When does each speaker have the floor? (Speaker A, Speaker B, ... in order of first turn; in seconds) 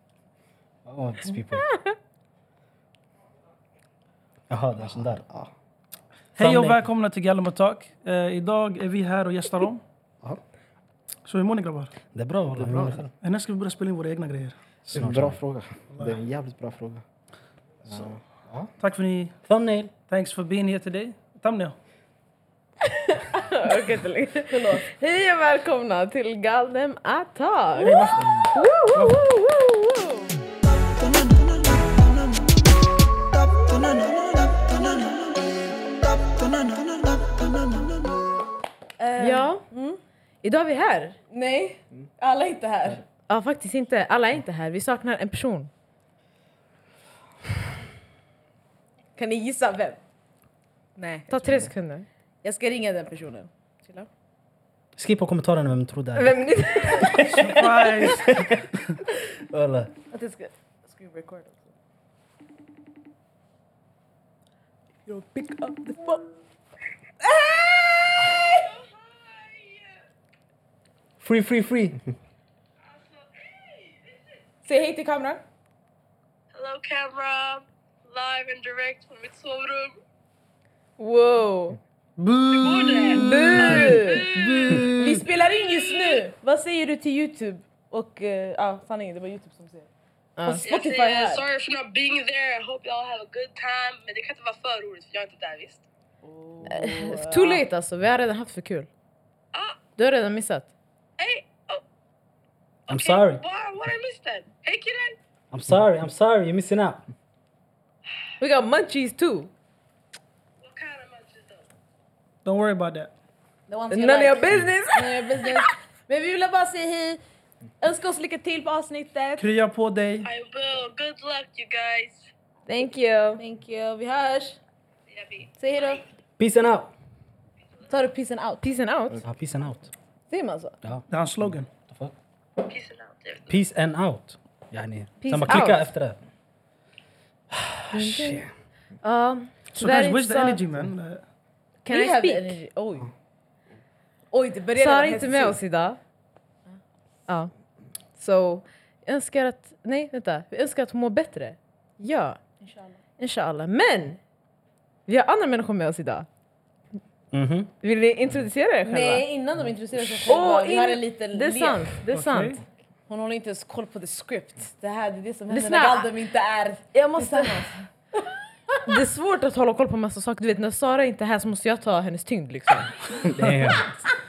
Speaker A: 0.8-1.7, 4.5-5.2, 6.4-6.8, 12.1-13.1, 14.9-15.4, 19.4-19.9, 55.0-59.9, 71.2-72.0, 102.9-103.4, 105.5-107.0, 126.4-126.9, 129.2-129.9, 131.8-132.1, 133.5-136.2, 137.5-138.5, 157.3-157.7, 173.3-173.9
Speaker B: 4.8-5.5, 12.5-13.1, 14.9-17.0, 17.9-18.7
Speaker C: 6.3-9.8, 11.2-11.9, 13.1-14.6, 18.8-19.4, 20.1-21.8, 27.8-29.2, 57.2-58.5, 82.2-85.3, 112.4-113.1, 119.4-120.3, 131.1-131.7, 139.7-141.2, 162.1-162.6
Speaker D: 22.8-30.3, 39.2-39.6, 40.4-41.2, 43.3-45.7, 51.3-52.0, 56.1-57.5, 65.1-65.5, 81.0-81.8, 83.0-84.2, 90.4-90.6, 96.7-98.9, 100.0-100.7, 108.4-109.5, 113.9-115.6, 122.7-123.4, 128.6-129.2, 135.2-135.9, 137.9-138.5, 139.0-140.7, 141.8-142.6, 144.8-146.0, 147.3-147.5, 148.2-152.4, 153.2-154.2, 155.1-156.3, 157.8-159.2, 160.2-162.6, 165.5-166.1, 166.9-167.7, 168.8-173.3
Speaker E: 24.5-24.9, 39.0-40.0, 41.3-43.0, 49.1-50.0, 51.0-51.7, 52.4-54.1, 60.1-61.7, 65.1-66.2, 67.2-68.7, 74.6-75.4, 83.6-84.3, 84.9-89.9, 90.4-91.5, 96.2-97.6, 113.7-117.2, 117.8-119.5, 123.4-124.6, 125.6-126.0, 127.9-128.7, 130.3-130.8, 135.3-135.5, 141.9-143.1, 144.3-145.6, 152.6-153.0, 158.8-161.9, 163.1-167.8
Speaker F: 68.5-69.8, 73.3-74.1, 76.5-80.0, 82.5-84.9, 85.5-86.2, 90.6-95.8, 99.5-99.8, 101.2-101.8, 102.9-105.1, 110.6-111.7, 120.2-122.3, 125.1-125.5, 132.7-133.4